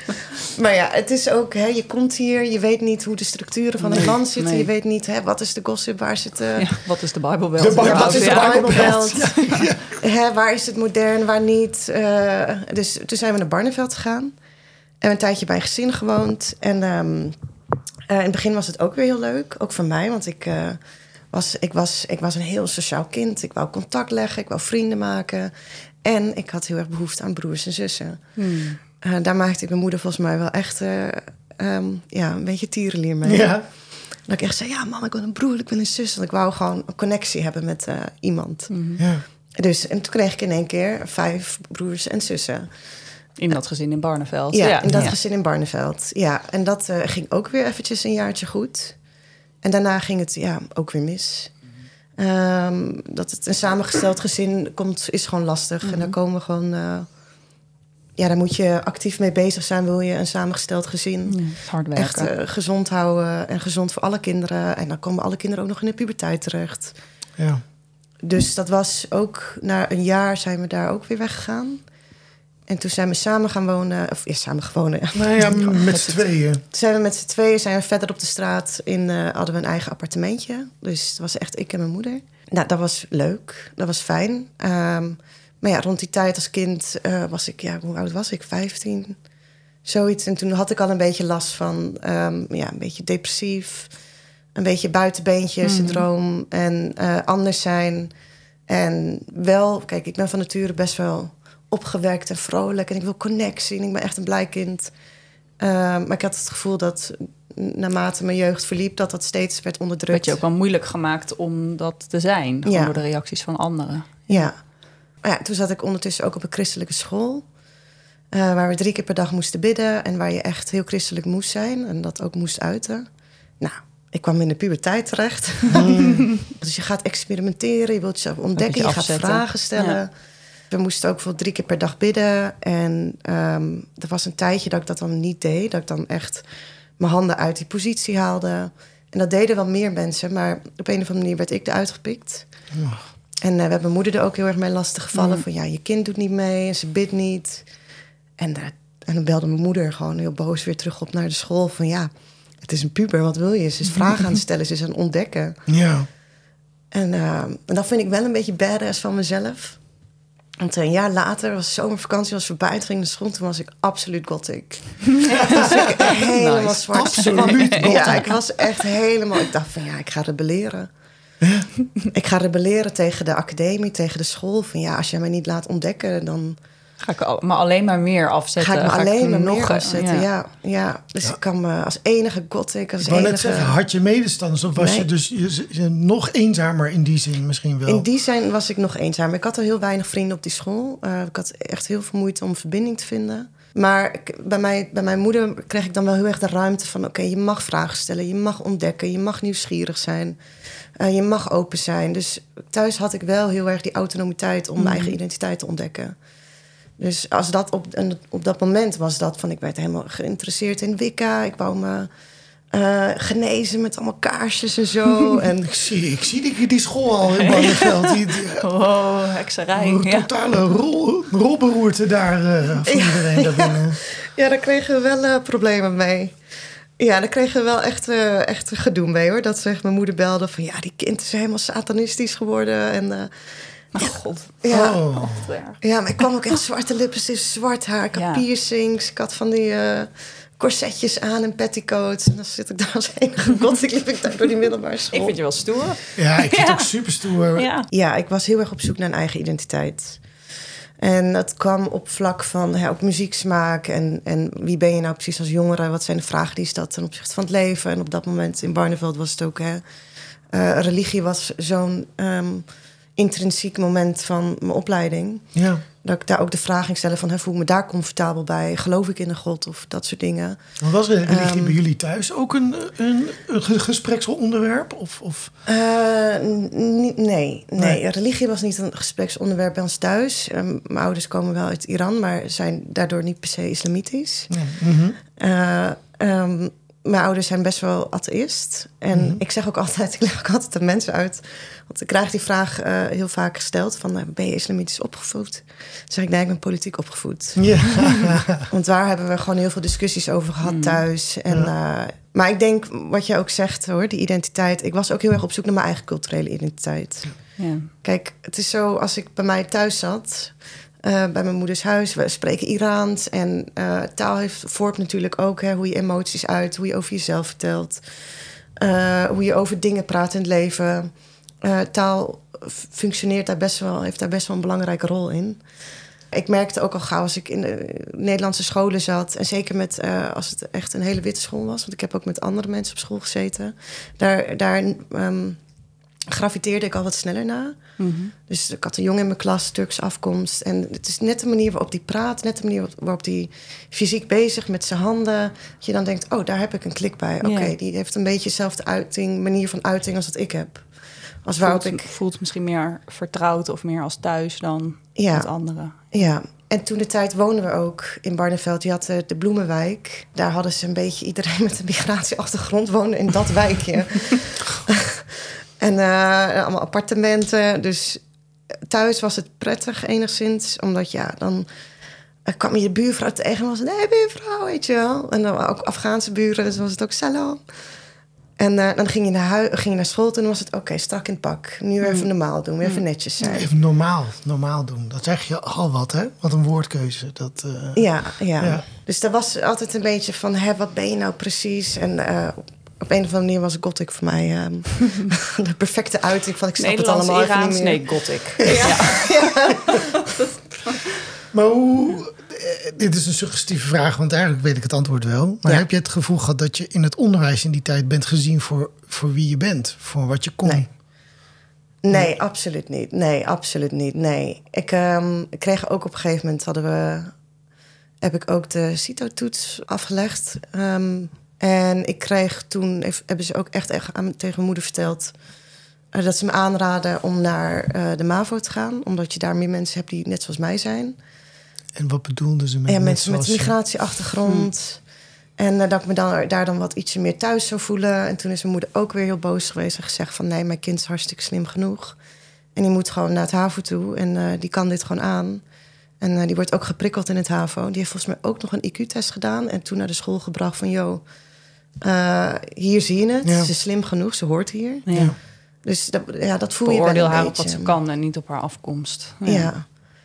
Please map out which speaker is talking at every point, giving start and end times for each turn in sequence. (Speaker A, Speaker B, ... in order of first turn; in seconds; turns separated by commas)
Speaker A: 0.4-6.7, Speaker B: 3.8-4.7, Speaker B: 6.6-9.7, Speaker C: 7.6-10.0, Speaker A: 7.8-9.4, Speaker A: 10.0-14.3, Speaker A: 15.0-17.4, Speaker A: 18.1-20.8, Speaker A: 21.3-25.5, Speaker A: 26.0-28.2, Speaker B: 28.4-28.8, Speaker A: 29.0-33.6, Speaker C: 33.2-33.6, Speaker A: 34.3-38.7, Speaker B: 38.7-39.0, Speaker C: 39.0-39.2, Speaker A: 39.6-42.7, Speaker B: 43.4-45.2, Speaker A: 44.5-49.0, Speaker C: 44.9-45.1, Speaker A: 49.6-51.5, Speaker A: 52.2-57.1, Speaker B: 55.8-56.1, Speaker A: 58.2-67.0, Speaker B: 61.3-62.3, Speaker A: 68.2-71.8, Speaker A: 72.7-75.8, Speaker C: 75.1-76.6, Speaker B: 75.4-76.2, Speaker A: 76.7-89.2, Speaker A: 89.8-93.9, Speaker A: 94.5-98.1, Speaker B: 95.6-96.1, Speaker A: 98.7-104.9, Speaker A: 105.6-110.4, Speaker B: 110.1-114.5, Speaker A: 112.7-113.0, Speaker A: 114.3-114.5, Speaker A: 115.2-117.5, Speaker A: 118.3-123.1, Speaker A: 123.6-130.1, Speaker C: 125.7-126.2, Speaker B: 128.6-130.0, Speaker A: 130.7-136.4, Speaker A: 137.0-142.5, Speaker C: 142.7-143.0, Speaker A: 143.4-147.7, Speaker B: 145.1-145.4, Speaker A: 148.4-152.1, Speaker A: 152.6-155.6, Speaker C: 155.7-156.1, Speaker A: 156.9-159.8, Speaker A: 160.6-170.9, Speaker B: 165.1-168.8, Speaker C: 165.3-165.9, Speaker C: 166.9-168.2, Speaker C: 171.4-171.7, Speaker A: 172.1-176.6, Speaker B: 177.0-180.3, Speaker A: 178.6-183.8, Speaker C: 183.0-188.1, Speaker A: 184.8-185.1, Speaker A: 187.9-200.4, Speaker A: 201.0-206.2, Speaker B: 204.8-205.2, Speaker A: 207.0-212.1, Speaker A: 212.7-215.8, Speaker C: 215.6-218.7, Speaker B: 217.3-220.3, Speaker C: 219.8-224.0, Speaker A: 222.8-226.3, Speaker A: 227.0-235.2, Speaker B: 233.9-234.6, Speaker C: 234.7-235.4, Speaker B: 235.2-235.8, Speaker A: 235.8-245.6, Speaker B: 238.2-238.4, Speaker B: 245.1-246.9, Speaker C: 246.2-247.7, Speaker B: 247.5-247.9, Speaker A: 247.9-250.2, Speaker A: 251.0-259.8, Speaker A: 260.5-265.5, Speaker C: 265.5-265.8, Speaker A: 266.0-270.6, Speaker C: 270.8-275.5, Speaker A: 271.2-271.8, Speaker A: 275.7-284.5, Speaker C: 284.5-285.2, Speaker A: 285.4-321.1, Speaker C: 289.1-289.4, Speaker C: 297.6-298.7, Speaker B: 300.6-301.0, Speaker B: 307.6-307.9, Speaker A: 321.6-325.6, Speaker A: 326.3-335.6, Speaker A: 336.3-337.8, Speaker B: 338.0-338.3, Speaker A: 338.5-350.9, Speaker B: 347.4-347.7, Speaker A: 351.4-352.1, Speaker B: 351.6-356.0, Speaker A: 355.2-368.2, Speaker A: 368.9-371.7, Speaker A: 372.4-377.6, Speaker A: 378.6-383.7, Speaker B: 382.0-382.3, Speaker C: 383.4-388.9, Speaker A: 387.9-400.3, Speaker B: 396.8-401.2, Speaker C: 398.6-399.2, Speaker C: 401.5-410.9, Speaker A: 410.6-410.9, Speaker A: 412.0-417.3, Speaker A: 418.2-425.3, Speaker A: 426.1-431.2, Speaker C: 431.9-433.7, Speaker A: 432.9-435.0, Speaker A: 435.6-442.2, Speaker A: 442.8-445.6, Speaker A: 446.2-451.2, Speaker A: 452.0-455.3, Speaker C: 453.4-453.7, Speaker B: 455.1-455.4, Speaker A: 455.8-457.9, Speaker B: 456.8-459.7, Speaker A: 459.4-459.9